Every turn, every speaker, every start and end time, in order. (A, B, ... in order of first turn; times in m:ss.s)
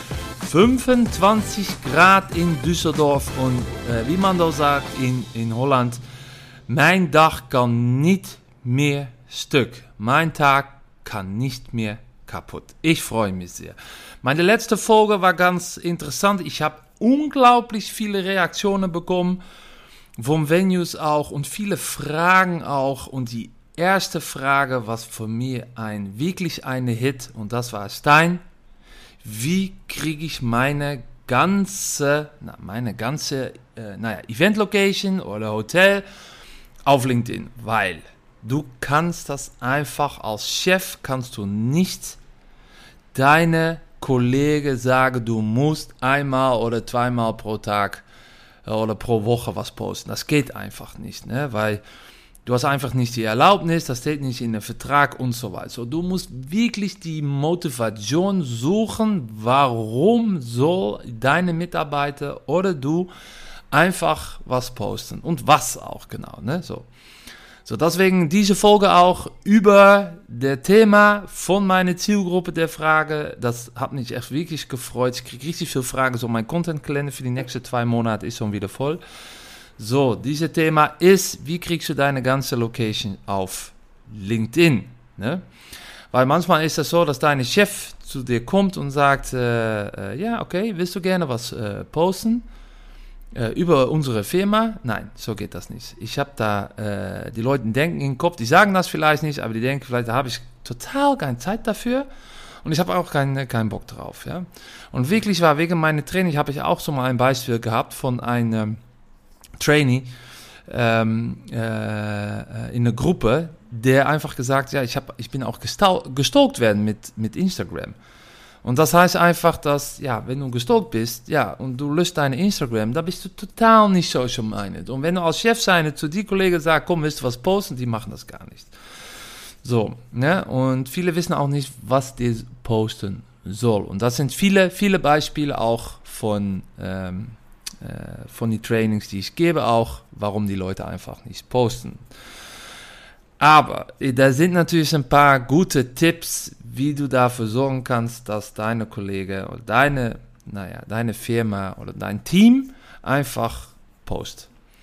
0:00.4-0:06.0 A
0:06.7-0:19.4 A
0:20.2-0:28.4 A
0:29.2-0:36.0 A
0:36.9-0:42.2 A
0:43.1-0:48.0 A
0:48.6-0:51.8 A
0:52.4-1:03.1 A
1:03.7-1:06.9 A
1:07.6-1:19.0 A
1:19.8-1:25.4 A
1:26.1-1:32.4 A
1:33.4-1:42.1 A
1:42.6-1:48.8 A
1:49.6-1:50.1 A
1:50.7-1:58.0 A
1:58.6-2:08.7 A
2:09.6-2:22.0 A
2:23.4-2:34.5 A